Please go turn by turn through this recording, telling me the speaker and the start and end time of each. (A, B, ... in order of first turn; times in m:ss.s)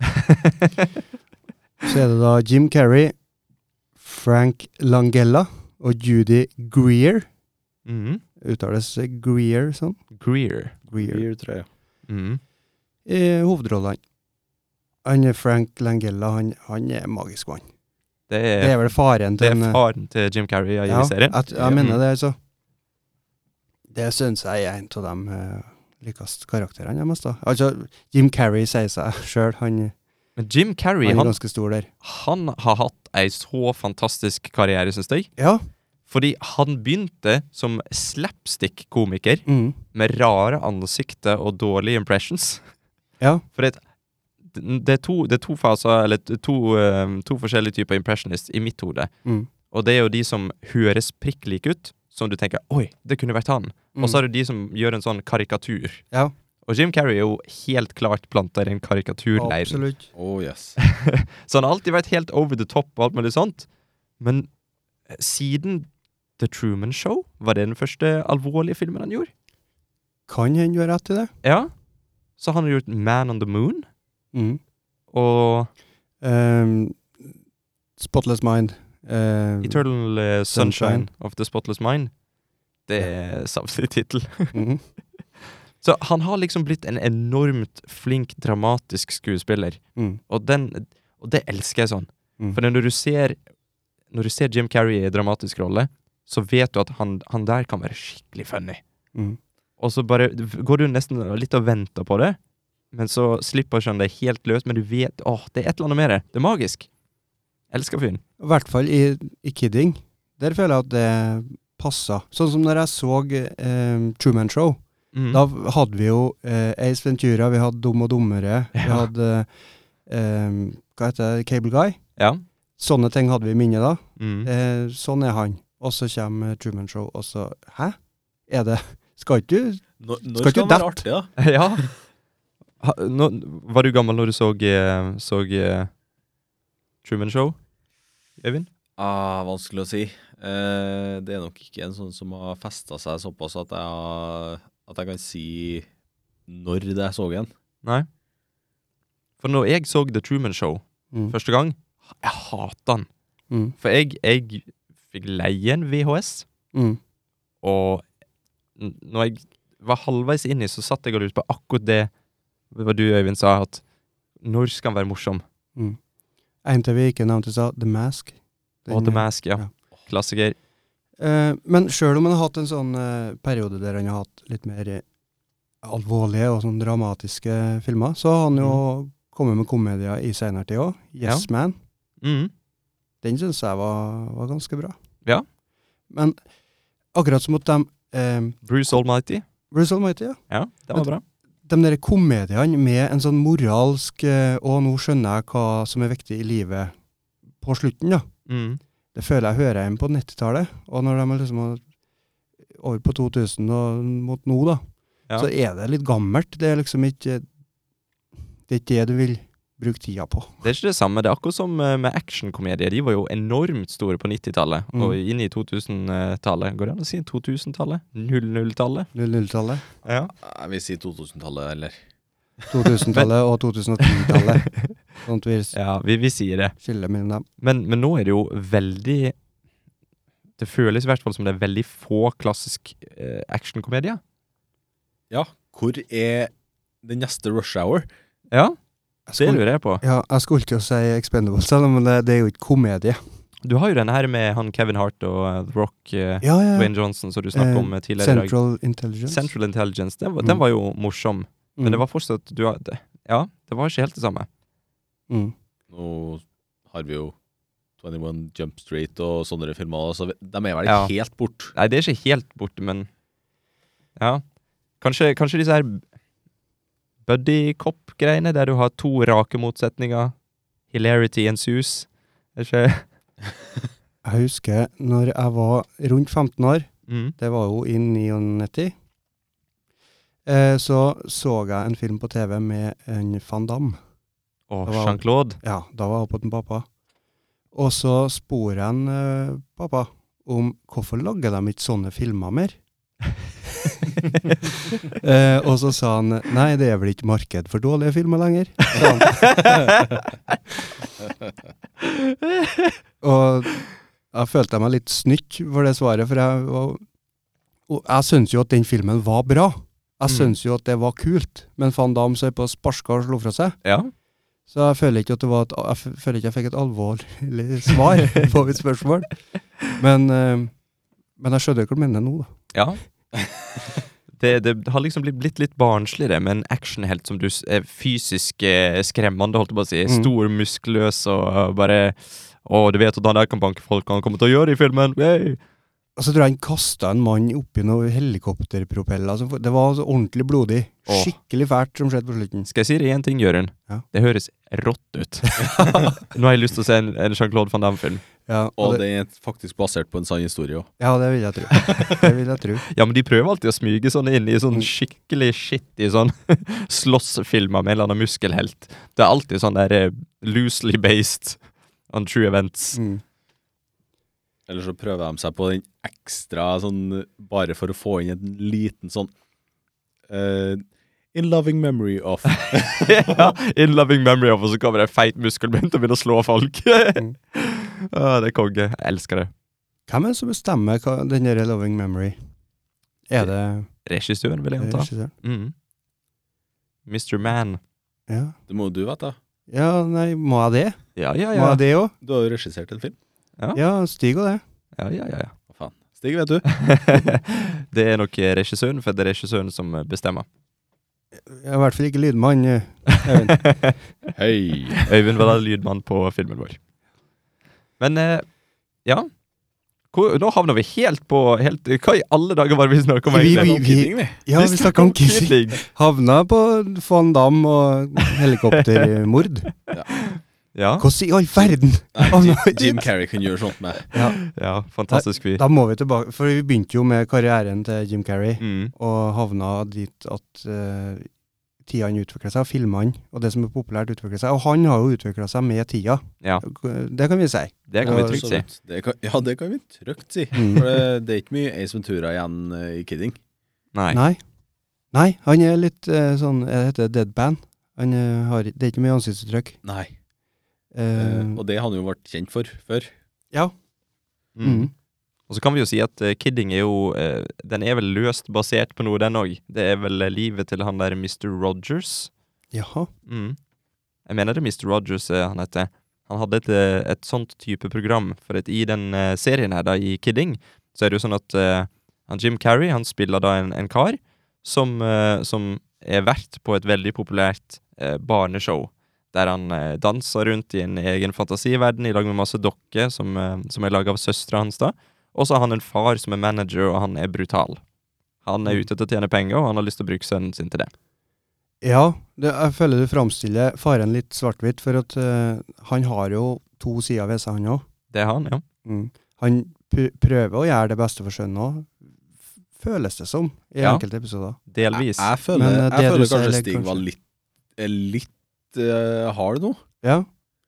0:00.3-0:00.5 A
0:01.8-0:03.2 B
0:04.0-0:07.3 B
0:07.9-0:08.2 A
0:08.4-0:10.0 B
0:10.1-0:10.8 A
0:10.9-0:11.2 B
0:11.0-0:11.7 C
0:12.1-0:12.4 A
0:13.1-0:14.0 B
0:15.0-0:17.7 B
0:18.3-0:18.8 A
0:18.6-0:19.8 B
0:19.4-0:22.0 A
0:20.9-0:22.4 B
0:21.5-0:21.8 C
0:23.9-0:29.9 B
0:30.4-0:31.4 A
0:31.0-0:31.9 B
0:32.0-0:35.3 A
0:35.4-0:35.6 B
0:36.1-0:42.6 A
0:39.5-0:39.8 B
0:43.6-0:43.8 A
0:44.5-0:49.1 A
0:49.7-0:56.0 A
0:54.0-0:54.2 B
0:56.7-0:59.8 A
0:59.4-1:00.1 B
1:00.2-1:00.8 C
1:00.8-1:03.7 A
1:04.2-1:04.5 A
1:05.1-1:09.3 A
1:10.3-1:11.3 B
1:11.4-1:11.7 A
1:12.4-1:13.9 A
1:14.3-1:14.6 B
1:15.1-1:15.7 A
1:16.2-1:17.3 B
1:18.0-1:19.8 B
1:19.6-1:22.1 A
1:20.5-1:21.1 B
1:22.9-1:24.6 A
1:24.5-1:24.8 B
1:25.8-1:33.4 A
1:30.0-1:30.2 B
1:34.1-1:38.8 A
1:39.8-1:42.4 A
1:42.9-1:46.9 A
1:47.7-1:48.2 A
1:48.4-1:59.5 B
1:55.1-1:55.4 A
1:58.8-1:59.1 A
2:00.1-2:02.0 B
2:02.2-2:02.4 A
2:02.8-2:08.0 B
2:04.2-2:04.5 A
2:08.5-2:11.0 B
2:10.0-2:11.3 C
2:11.4-2:11.9 A
2:12.8-2:15.9 A
2:17.0-2:17.6 A
2:18.4-2:18.7 A
2:19.0-2:25.9 C
2:26.5-2:27.5 C
2:29.4-2:33.1 A
2:33.5-2:33.8 B
2:33.8-2:36.4 A
2:36.7-2:37.0 B
2:37.6-2:38.0 A
2:38.8-2:42.1 A
2:42.7-2:43.8 A
2:44.4-2:45.4 A
2:46.6-2:49.7 B
2:48.9-2:50.6 A
2:51.2-2:55.0 B
2:55.8-3:01.8 B
3:02.2-3:02.5 A
3:03.2-3:05.0 B
3:06.1-3:06.4 B
3:07.1-3:08.6 B
3:08.6-3:09.4 A
3:09.7-3:10.4 B
3:10.5-3:11.2 A
3:11.7-3:16.9 B
3:17.6-3:18.3 B
3:18.5-3:18.8 A
3:19.1-3:21.8 B
3:22.7-3:24.8 B
3:25.4-3:27.4 B
3:28.7-3:30.6 B
3:30.6-3:39.1 A
3:39.2-3:39.8 B
3:40.0-3:40.3 A
3:40.4-3:42.0 C
3:42.7-3:44.7 B
3:44.0-3:44.9 A
3:45.2-3:45.8 B
3:45.7-3:46.8 A
3:46.8-3:47.4 B
3:47.6-3:49.4 A
3:50.6-3:54.2 A
3:55.3-3:56.5 C
3:57.0-3:58.1 C
3:58.5-3:58.8 A
3:59.3-4:03.2 B
3:59.4-4:00.0 A
4:03.6-4:08.5 A
4:06.4-4:06.9 B
4:07.5-4:09.5 B
4:09.3-4:14.5 A
4:11.8-4:12.0 B
4:15.9-4:17.4 C
4:18.0-4:21.7 C
4:20.8-4:21.1 A
4:21.8-4:23.1 A
4:24.2-4:24.4 A
4:25.0-4:26.0 A
4:27.3-4:30.3 A
4:30.9-4:33.1 A
4:34.2-4:38.9 B
4:37.1-4:37.4 A
4:40.5-4:44.0 B
4:44.7-4:45.6 A
4:44.9-4:46.9 B
4:47.7-4:52.8 B
4:53.9-4:54.1 B
4:55.1-4:59.6 B
4:59.0-5:00.6 A
5:02.0-5:02.9 A
5:03.2-5:07.0 B
5:07.9-5:13.8 B
5:10.3-5:10.6 A
5:13.8-5:14.1 A
5:14.7-5:19.4 B
5:19.9-5:20.7 B
5:21.4-5:22.5 B
5:22.7-5:23.0 A
5:24.4-5:35.6 A
5:30.1-5:30.3 B
5:36.2-5:42.7 B
5:41.1-5:41.3 A
5:42.7-5:48.2 A
5:45.6-5:46.2 B
5:48.5-5:49.0 B
5:48.8-5:50.9 C
5:51.0-5:52.8 B
5:52.9-6:01.6 A
6:02.1-6:03.0 A
6:03.0-6:03.2 B
6:04.7-6:09.3 C
6:10.3-6:13.2 C
6:12.6-6:19.5 A
6:20.1-6:22.4 B
6:23.3-6:23.9 B
6:24.0-6:25.7 A
6:24.8-6:25.3 B
6:27.1-6:27.8 A
6:28.3-6:28.6 B
6:28.7-6:29.4 C
6:29.7-6:32.1 B
6:31.2-6:31.8 A
6:32.2-6:33.2 C
6:33.7-6:34.6 B
6:35.0-6:35.6 A
6:35.7-6:36.7 C
6:36.7-6:40.5 A
6:41.4-6:43.7 B
6:43.1-6:44.0 A
6:44.3-6:45.1 C
6:45.1-6:46.8 A
6:48.0-6:48.4 A
6:50.1-6:53.8 A
6:53.3-6:59.7 B
6:53.4-6:54.4 C
6:54.6-6:55.8 A
7:00.2-7:01.1 A
7:01.0-7:03.1 B
7:02.1-7:04.1 C
7:04.1-7:04.4 B
7:04.4-7:05.6 A
7:05.1-7:11.3 B
7:08.6-7:08.9 A
7:11.8-7:18.4 B
7:17.9-7:18.7 A
7:18.0-7:23.4 C
7:20.6-7:20.9 B
7:23.9-7:24.2 A
7:24.1-7:24.4 B
7:25.1-7:29.8 B
7:29.8-7:30.1 C
7:30.9-7:31.6 B
7:31.2-7:33.1 C
7:34.6-7:34.9 A
7:34.6-7:34.9 B
7:35.5-7:42.3 A
7:42.7-7:43.1 B
7:43.3-7:43.6 A
7:44.3-8:07.8 A
8:08.4-8:10.9 A
8:11.8-8:17.8 B
8:18.1-8:18.6 A
8:18.8-8:22.0 B
8:22.8-8:24.6 B
8:24.7-8:25.3 A
8:24.9-8:27.2 C
8:25.5-8:27.0 B
8:27.8-8:29.8 C